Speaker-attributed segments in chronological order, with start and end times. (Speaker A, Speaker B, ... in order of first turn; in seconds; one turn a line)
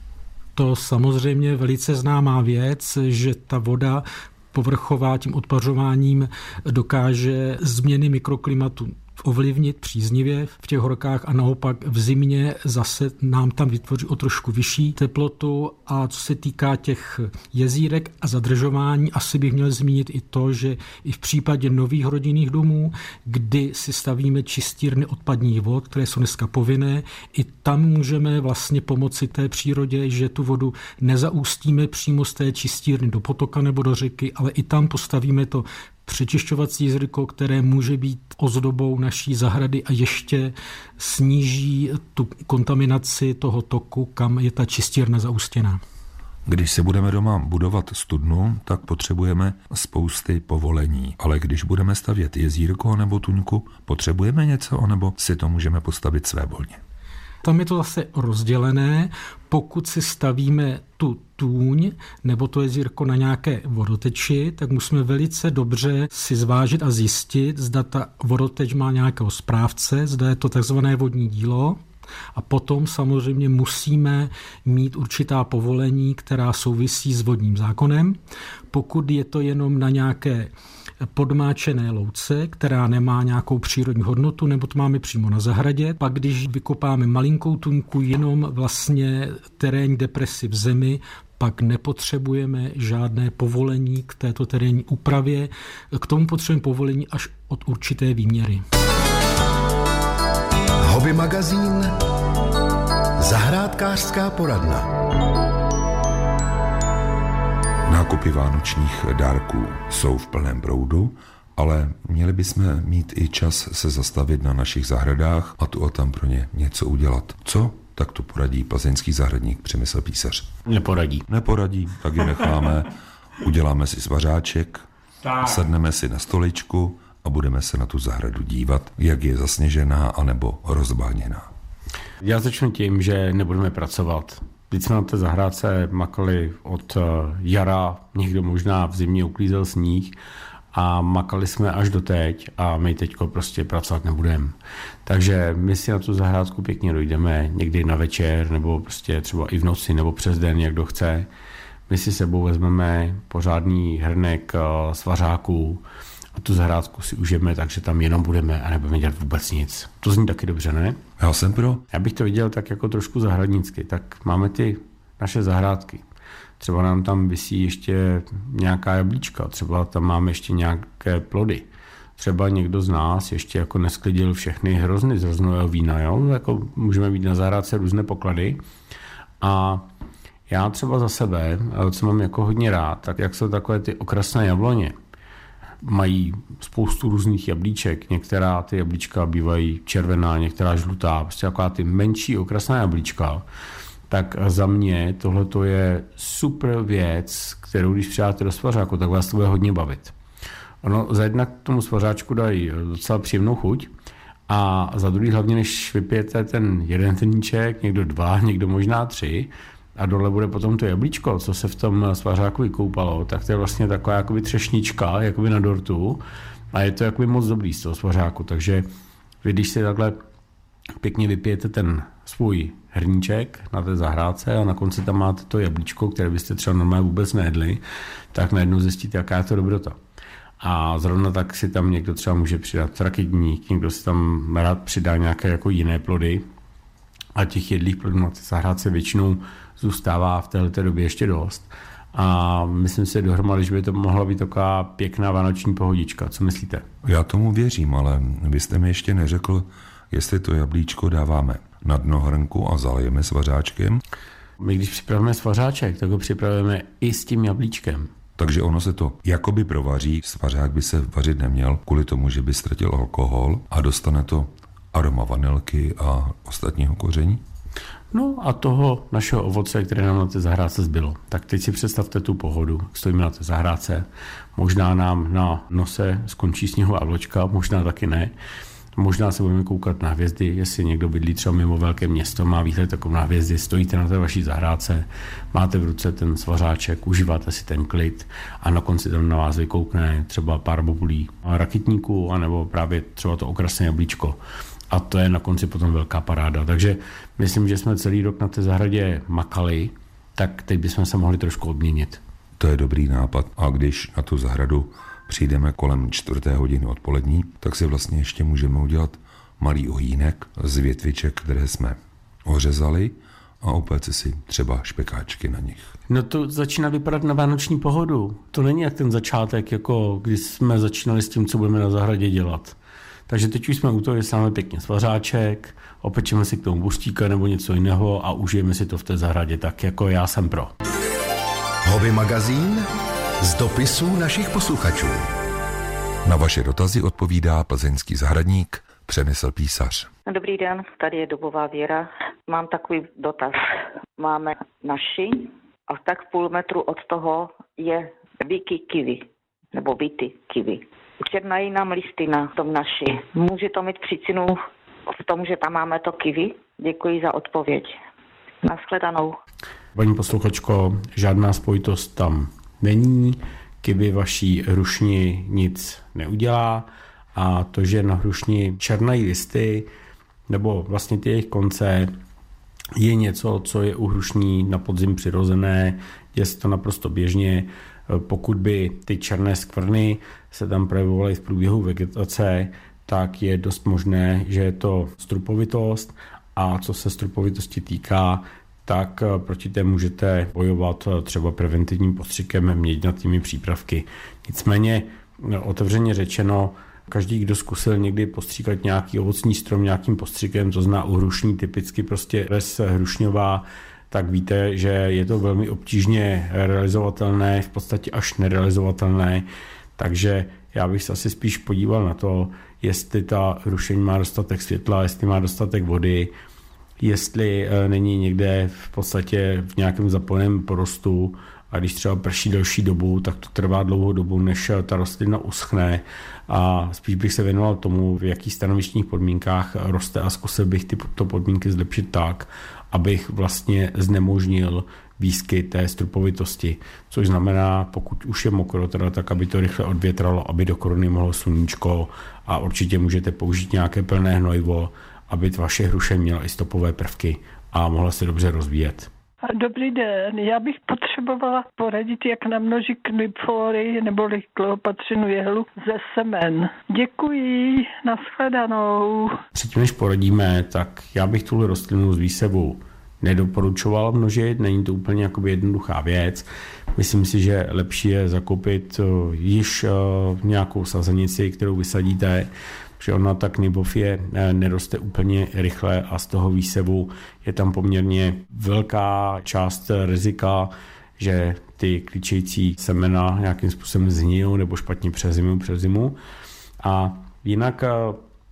Speaker A: 0.6-45.8
Speaker B: 46.5-56.8
Speaker A: 57.4-71.8
Speaker A: 72.3-78.2
Speaker A: 78.7-80.5
Speaker A: 81.1-98.6
Speaker C: 100.8-102.0
Speaker C: 103.2-104.9
Speaker B: 107.9-120.5
Speaker D: 120.7-121.2
Speaker B: 121.3-124.8
Speaker D: 125.2-125.5
Speaker B: 125.4-131.5
Speaker D: 132.2-140.1
Speaker D: 140.7-151.3
Speaker D: 151.9-155.8
Speaker D: 156.3-161.0
Speaker B: 161.2-161.8
Speaker D: 161.9-166.0
Speaker D: 166.6-178.6
Speaker D: 179.4-179.9
Speaker D: 180.5-184.9
Speaker D: 185.8-193.4
Speaker D: 194.1-200.1
Speaker D: 200.8-203.9
Speaker D: 204.5-218.9
Speaker D: 219.4-220.2
Speaker D: 221.0-227.8
Speaker D: 228.3-230.0
Speaker D: 230.6-236.5
Speaker D: 237.3-246.8
Speaker B: 247.0-254.0
Speaker D: 254.6-258.1
Speaker B: 258.4-267.4
Speaker D: 268.1-278.3
Speaker D: 278.9-294.4
Speaker D: 294.9-302.2
Speaker B: 302.6-315.9
Speaker D: 316.1-322.8
Speaker D: 323.3-330.7
Speaker C: 331.8-332.9
Speaker C: 333.4-335.3
Speaker B: 336.2-340.1
Speaker E: 340.3-343.6
Speaker E: 344.2-358.0
Speaker E: 358.6-359.4
Speaker D: 359.9-369.9
Speaker D: 370.5-372.1
Speaker D: 372.9-409.4
Speaker D: 410.0-416.3
Speaker D: 417.0-449.1
Speaker F: 449.5-459.4
Speaker D: 459.5-486.2
Speaker D: 486.8-488.2